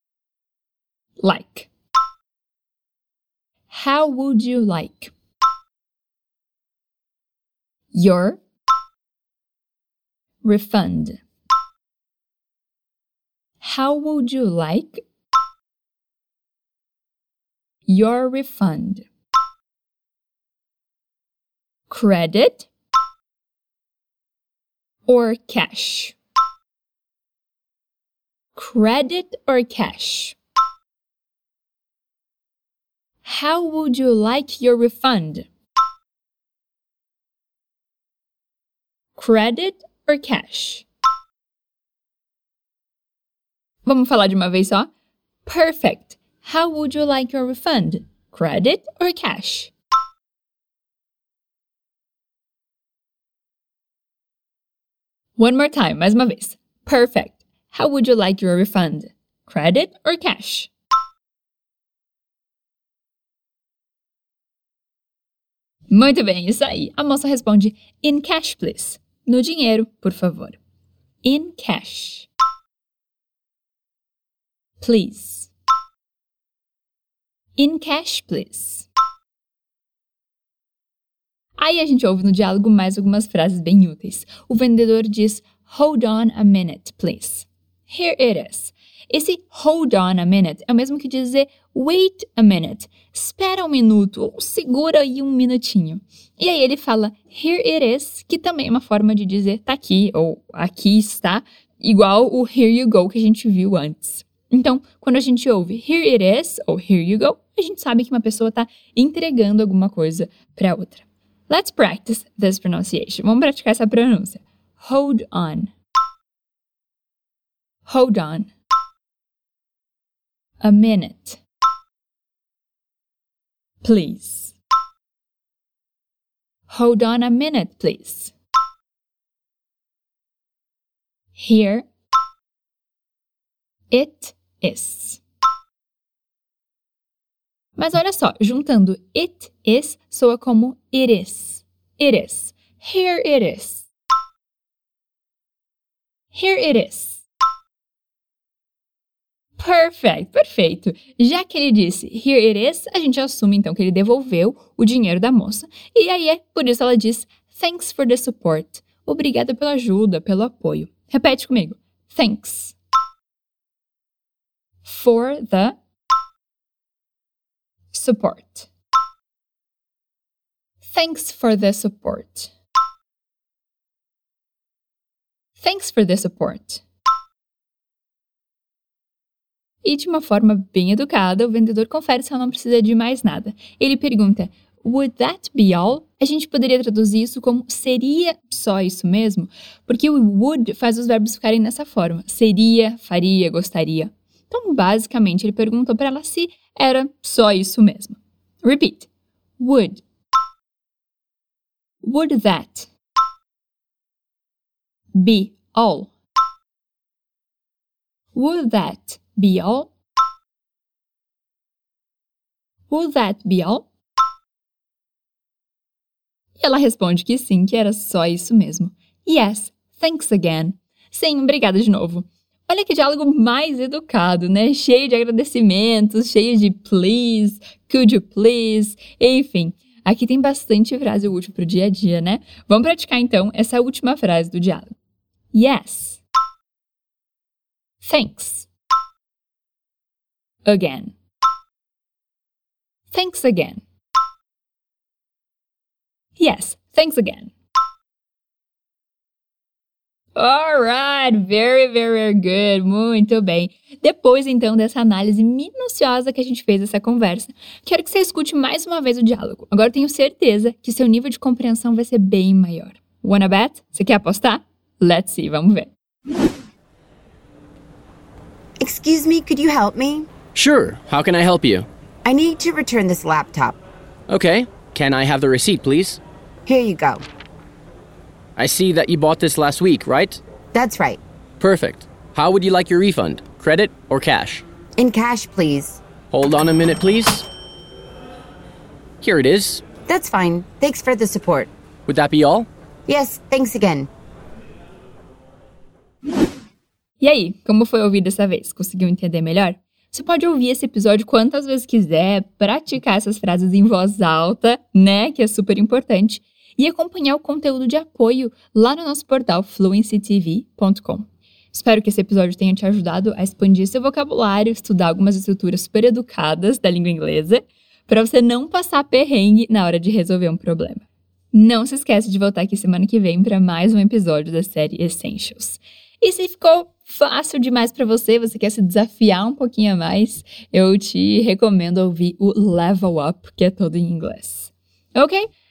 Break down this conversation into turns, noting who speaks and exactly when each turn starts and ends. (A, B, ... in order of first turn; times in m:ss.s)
0:01.2-0:01.7 A
0:03.7-0:05.1 A
0:07.9-0:08.4 A
0:10.4-0:11.2 A
0:13.6-0:15.0 A
0:17.9-0:19.1 A
0:21.9-0:22.7 A
0:25.1-0:26.2 A
0:28.6-0:30.4 A
0:33.2-0:35.5 A
0:39.2-0:40.9 A
0:43.8-0:44.9 A
0:45.4-0:49.7 A
0:55.4-1:00.7 A
1:05.9-1:10.6 A
1:11.2-1:12.3 A
1:14.8-1:15.5 A
1:17.6-1:18.9 A
1:21.6-1:55.7 A
1:57.9-1:58.5 A
2:00.6-2:01.4 A
2:03.8-2:04.6 A
2:06.7-2:08.3 A
2:11.4-2:11.9 A
2:13.9-2:15.2 A
2:17.8-2:23.9 A
2:26.3-2:27.2 A
2:29.6-2:42.8 A
2:44.8-2:45.8 A
2:47.9-2:48.7 A
2:50.8-2:52.5 A
2:55.6-2:56.8 A
2:59.8-3:20.0 A
3:22.0-3:22.9 A
3:25.2-3:26.1 A
3:28.3-3:29.9 A
3:32.9-3:33.9 A
3:36.6-3:55.0 A
3:55.5-3:56.2 A
3:58.0-3:58.7 A
4:00.7-4:01.1 A
4:03.1-4:03.8 A
4:06.4-4:07.5 A
4:10.4-4:25.9 A
4:28.8-4:30.3 B
4:30.6-4:31.9 C
4:32.2-4:33.8 B
4:34.3-4:36.2 C
4:36.7-4:37.2 B
4:38.6-4:40.4 C
4:40.7-4:41.2 B
4:41.6-4:44.6 C
4:45.0-4:46.0 B
4:46.3-4:47.5 C
4:49.2-4:49.8 C
4:50.1-4:51.7 B
4:52.1-4:52.7 C
4:53.1-4:54.1 B
4:57.2-5:35.5 A